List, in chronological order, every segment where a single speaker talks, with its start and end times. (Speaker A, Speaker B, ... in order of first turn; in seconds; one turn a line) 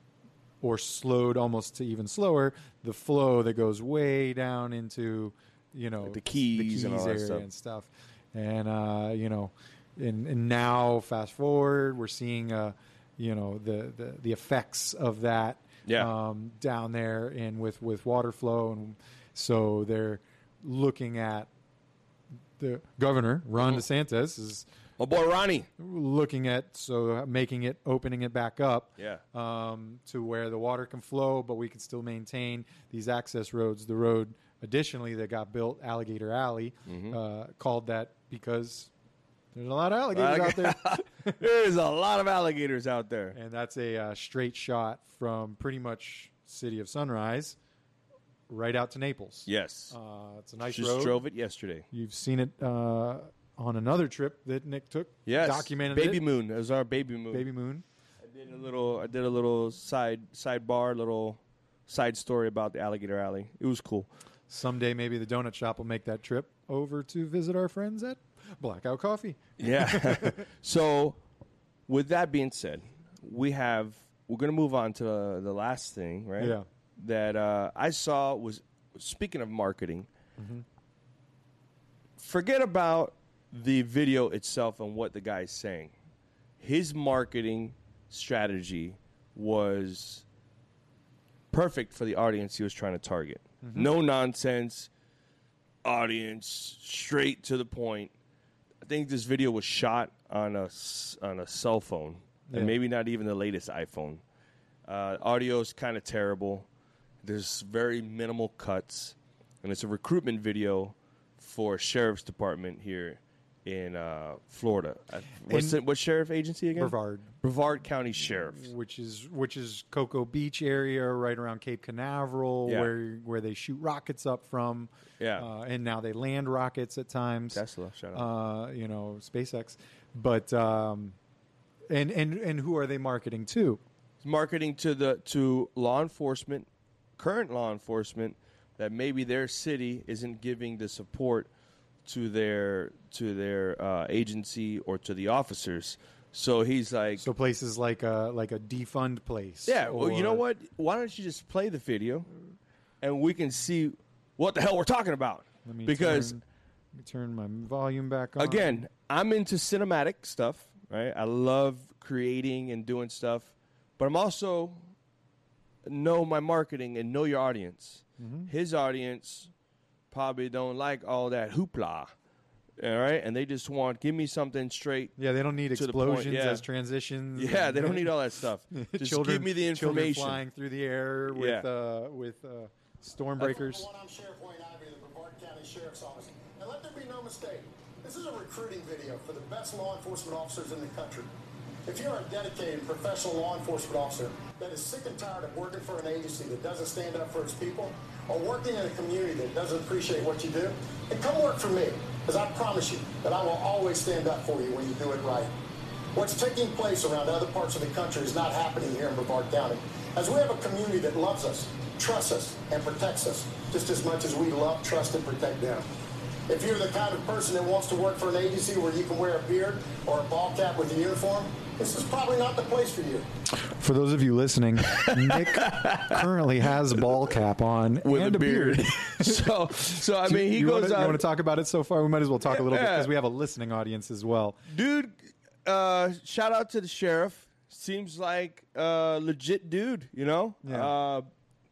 Speaker A: 0.6-21.5
Speaker B: 6.0-7.5
Speaker B: 15.9-16.1
Speaker A: 22.6-24.7
Speaker B: 25.0-25.7
Speaker A: 25.8-38.9
Speaker B: 29.0-29.2
Speaker B: 36.9-37.2
Speaker A: 39.5-41.4
Speaker B: 40.1-43.4
Speaker A: 43.3-47.6
Speaker A: 48.5-51.2
Speaker B: 49.5-50.0
Speaker B: 50.7-51.9
Speaker A: 51.9-56.2
Speaker B: 55.3-57.5
Speaker A: 57.3-57.9
Speaker B: 58.2-64.1
Speaker A: 64.5-70.5
Speaker B: 69.6-71.2
Speaker B: 71.9-80.1
Speaker A: 76.4-76.7
Speaker A: 80.4-80.6
Speaker B: 82.2-85.9
Speaker B: 86.6-90.2
Speaker B: 91.5-94.9
Speaker A: 93.6-93.9
Speaker B: 95.8-98.1
Speaker B: 98.8-104.2
Speaker A: 102.5-102.7
Speaker B: 104.9-106.7
Speaker B: 107.2-118.7
Speaker A: 115.5-115.8
Speaker A: 116.8-117.4
Speaker A: 118.3-127.6
Speaker B: 122.7-122.9
Speaker B: 125.2-125.5
Speaker B: 127.5-128.3
Speaker A: 128.2-131.2
Speaker A: 131.9-133.8
Speaker B: 134.2-141.5
Speaker B: 142.1-147.3
Speaker A: 147.2-150.4
Speaker B: 149.7-152.3
Speaker B: 153.0-156.4
Speaker A: 155.7-156.4
Speaker A: 157.0-158.8
Speaker B: 158.4-164.8
Speaker B: 165.8-169.5
Speaker A: 168.2-168.5
Speaker B: 170.1-172.1
Speaker B: 172.8-175.1
Speaker A: 175.2-178.2
Speaker B: 175.7-176.6
Speaker B: 177.3-180.4
Speaker A: 178.7-183.9
Speaker B: 181.3-181.7
Speaker C: 183.4-191.3
Speaker C: 191.9-205.5
Speaker C: 206.1-215.8
Speaker C: 216.5-223.3
Speaker A: 223.5-234.6
Speaker B: 224.8-226.2
Speaker B: 228.0-231.2
Speaker B: 232.5-233.1
Speaker B: 234.7-241.3
Speaker A: 240.6-240.9